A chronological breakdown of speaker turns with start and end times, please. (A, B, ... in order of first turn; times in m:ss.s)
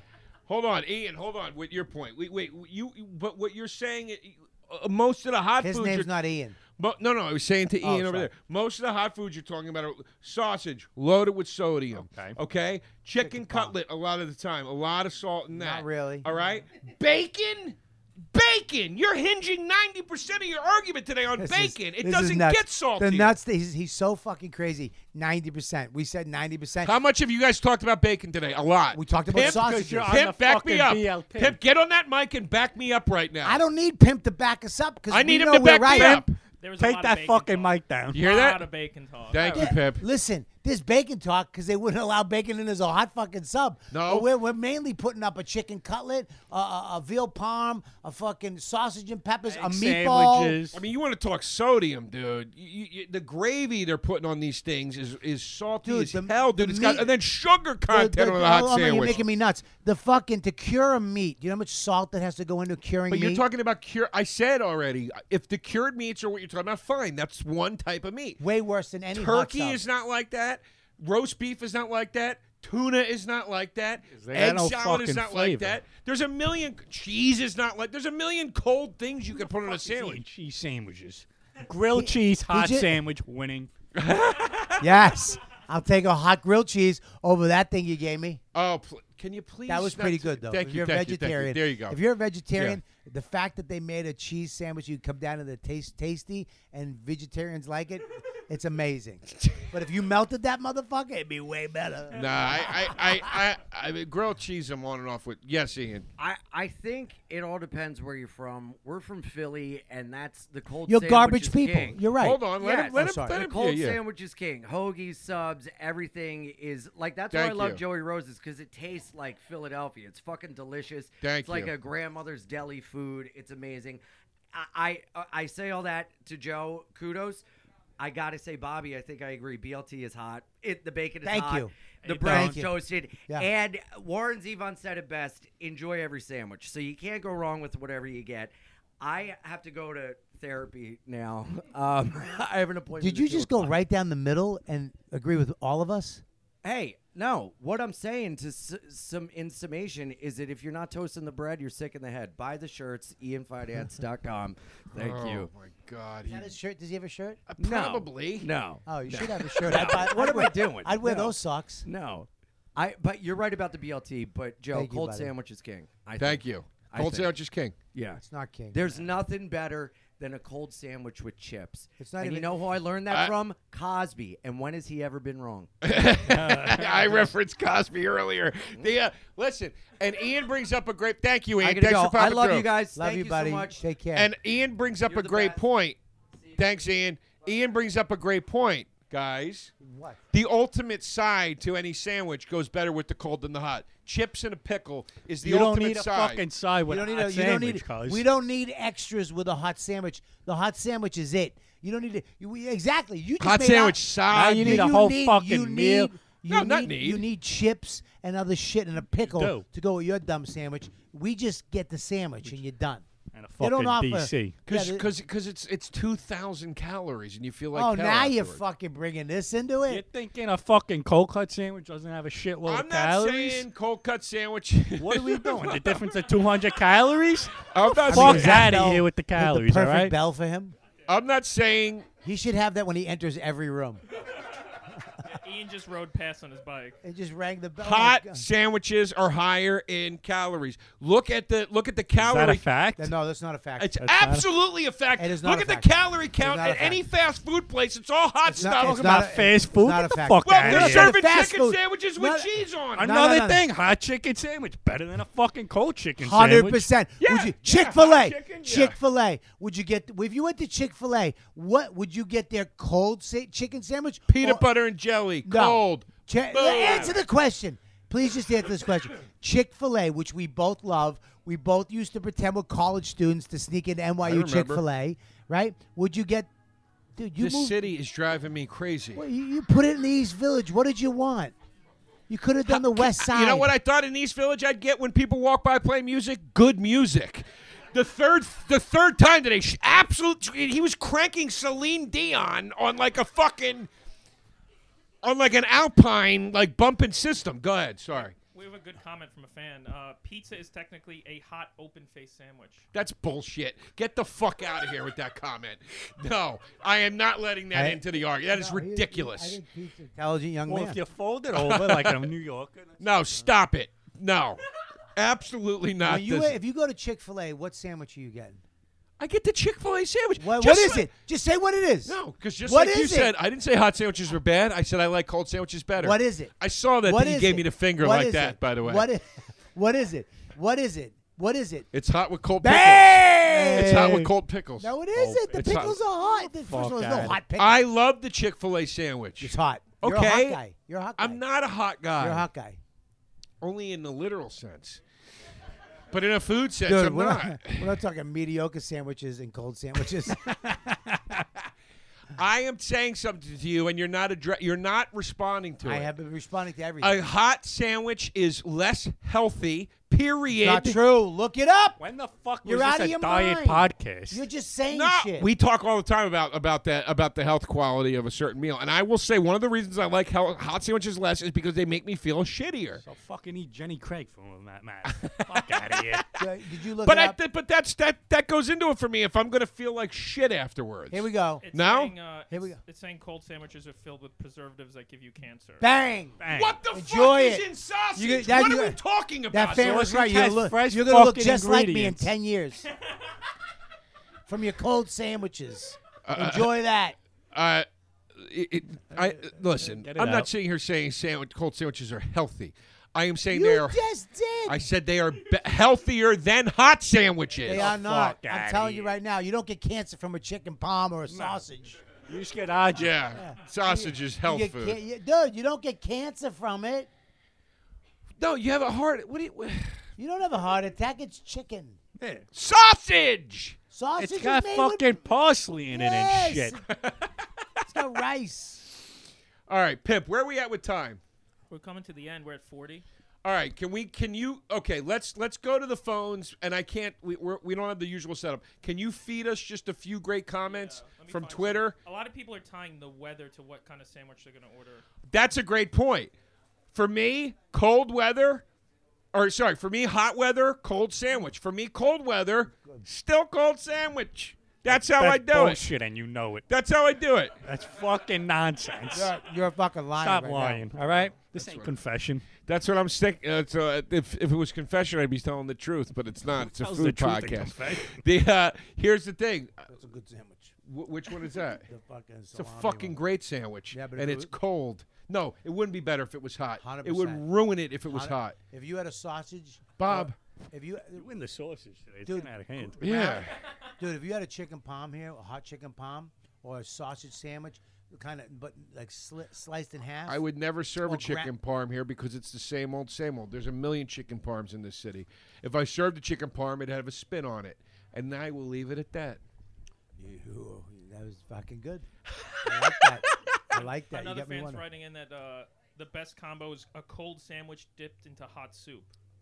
0:00.5-0:06.1 A
0:05.6-0:06.6 B
0:06.8-0:17.8 A
0:07.8-0:08.3 B
0:11.9-0:12.4 C
0:13.2-0:13.7 B
0:15.5-0:16.3 B
0:18.3-0:23.4 A
0:21.4-0:26.9 B
0:26.8-0:33.6 A
0:28.9-0:30.2 B
0:29.3-0:31.6 C
0:33.4-0:36.2 B
0:35.1-0:36.3 A
0:35.9-0:36.3 C
0:36.6-0:39.7 D
0:36.8-0:38.2 C
0:38.1-0:38.6 A
0:39.3-0:40.0 A
0:39.5-0:50.6 B
0:43.9-0:44.3 A
0:49.5-0:50.8 C
0:50.7-0:59.2 A
0:55.8-0:57.1 B
0:57.9-1:03.4 B
1:03.1-1:08.4 A
1:08.4-1:09.8 B
1:09.1-1:20.2 A
1:14.1-1:15.8 C
1:19.4-1:23.7 C
1:21.9-1:23.0 B
1:23.9-1:24.9 A
1:24.8-1:28.4 B
1:28.5-1:32.0 A
1:29.7-1:43.3 B
1:42.1-1:46.1 A
1:46.2-1:52.0 E
1:50.8-1:53.4 B
1:52.2-1:54.0 A
1:52.5-2:04.0 E
1:57.3-1:57.8 A
2:01.2-2:01.7 A
2:04.5-2:07.4 E
2:08.0-2:23.7 E
2:11.2-2:11.7 B
2:12.0-2:12.6 C
2:12.2-2:12.7 B
2:23.0-2:26.2 B
2:26.6-2:35.5 E
2:35.0-2:36.5 A
2:36.3-2:37.4 B
2:37.5-2:38.5 A
2:37.6-2:47.3 E
2:38.8-2:41.8 B
2:44.7-2:45.3 B
2:46.2-2:47.7 A
2:47.9-2:48.2 E
2:48.2-2:48.8 B
2:48.7-2:55.7 E
2:52.0-2:52.6 B
2:55.8-3:02.7 A
2:56.1-2:57.3 C
3:01.6-3:03.8 E
3:02.9-3:04.3 B
3:04.1-3:06.0 A
3:05.1-3:05.6 E
3:06.6-3:09.7 A
3:09.8-3:10.2 B
3:10.3-3:16.4 A
3:15.4-3:18.2 C
3:16.9-3:33.0 B
3:23.4-3:25.0 A
3:24.3-3:26.1 C
3:26.5-3:27.2 A
3:29.1-3:29.6 C
3:33.3-3:34.6 C
3:33.6-3:35.0 B
3:34.7-3:38.6 A
3:37.7-3:40.0 B
3:39.9-3:43.6 C
3:42.6-3:46.0 A
3:44.9-3:50.1 C
3:47.7-3:48.7 A
3:48.0-3:50.7 B
3:51.1-3:52.0 A
3:52.2-3:54.0 B
3:55.2-3:57.0 D
3:57.0-3:58.4 B
3:57.8-4:02.7 A
4:02.1-4:03.1 C
4:03.0-4:04.0 B
4:03.8-4:09.1 A
4:04.0-4:04.4 C
4:05.2-4:07.0 B
4:08.5-4:13.6 B
4:08.6-4:11.1 C
4:10.4-4:13.1 A
4:13.0-4:16.9 C
4:16.2-4:24.6 B
4:17.2-4:19.0 A
4:24.3-4:27.2 A
4:25.4-4:36.5 B
4:34.2-4:34.8 A
4:37.2-4:37.8 B
4:37.4-4:39.2 A
4:39.2-4:41.5 B
4:42.3-4:43.7 B
4:42.7-4:53.9 A
4:55.2-4:58.3 A
4:58.5-5:02.8 D
5:02.9-5:09.6 A
5:07.7-5:11.0 B
5:10.7-5:13.0 C
5:11.6-5:12.2 A
5:13.0-5:14.6 A
5:15.1-5:16.5 A
5:16.0-5:18.6 B
5:19.2-5:21.1 A
5:20.4-5:23.3 B
5:22.0-5:29.1 A
5:26.0-5:26.5 B
5:27.0-5:31.9 B
5:31.9-5:35.9 A
5:32.6-5:37.8 B
5:35.2-5:36.0 C
5:36.5-5:37.4 C
5:37.6-5:40.6 A
5:39.4-5:41.4 B
5:41.2-5:42.5 A
5:42.2-5:42.8 B
5:43.6-5:45.0 A
5:46.1-5:47.9 A
5:46.8-5:50.9 B
5:50.5-5:51.4 C
5:52.3-5:56.1 A
5:55.8-5:57.2 B
5:57.0-6:01.0 A
6:00.5-6:02.0 B
6:02.0-6:04.4 C
6:02.6-6:05.5 B
6:04.9-6:13.0 A
6:13.0-6:16.2 C
6:15.0-6:16.4 A
6:16.4-6:17.4 B
6:17.0-6:22.1 A
6:21.1-6:21.6 B
6:21.6-6:25.9 D
6:22.5-6:22.8 B
6:25.8-6:26.4 B
6:26.4-6:26.8 C
6:26.5-6:30.0 A
6:26.9-6:29.0 B
6:29.5-6:32.8 B
6:29.7-6:32.3 C
6:34.5-6:37.2 B
6:36.2-6:36.7 A
6:37.5-6:44.0 A
6:39.8-6:40.5 C
6:43.5-6:44.8 B
6:44.6-6:47.9 A
6:47.6-6:49.2 C
6:47.6-6:52.0 B
6:51.3-6:51.6 C
6:52.2-6:53.2 C
6:53.0-6:55.0 A
6:53.3-6:57.1 B
6:58.4-7:00.0 A
7:00.2-7:02.0 B
7:02.2-7:02.4 C
7:02.5-7:03.8 A
7:03.9-7:05.1 B
7:04.2-7:06.8 C
7:05.9-7:06.8 B
7:06.9-7:07.8 A
7:07.8-7:08.9 B
7:09.7-7:11.2 A
7:11.7-7:13.0 D
7:13.4-7:22.0 A
7:20.6-7:25.0 D
7:25.3-7:26.3 A
7:26.9-7:28.6 A
7:29.3-7:35.8 A
7:34.8-7:36.6 C
7:36.7-7:37.5 A
7:37.6-7:39.3 C
7:39.1-7:40.9 B
7:40.2-7:42.5 C
7:41.5-7:41.9 A
7:42.6-7:49.9 A
7:46.6-7:48.2 C
7:49.9-7:50.7 B
7:50.8-7:51.9 A
7:51.8-7:53.2 B
7:52.5-7:58.6 A
7:53.9-7:54.5 B
7:56.8-7:57.4 B
7:58.1-8:01.2 B
8:00.0-8:00.4 A
8:01.1-8:03.0 C
8:02.2-8:10.4 B
8:03.0-8:03.6 A
8:10.3-8:19.4 A
8:11.0-8:11.5 B
8:20.2-8:22.1 B
8:22.3-8:23.4 A
8:22.6-8:24.8 B
8:24.1-8:29.1 D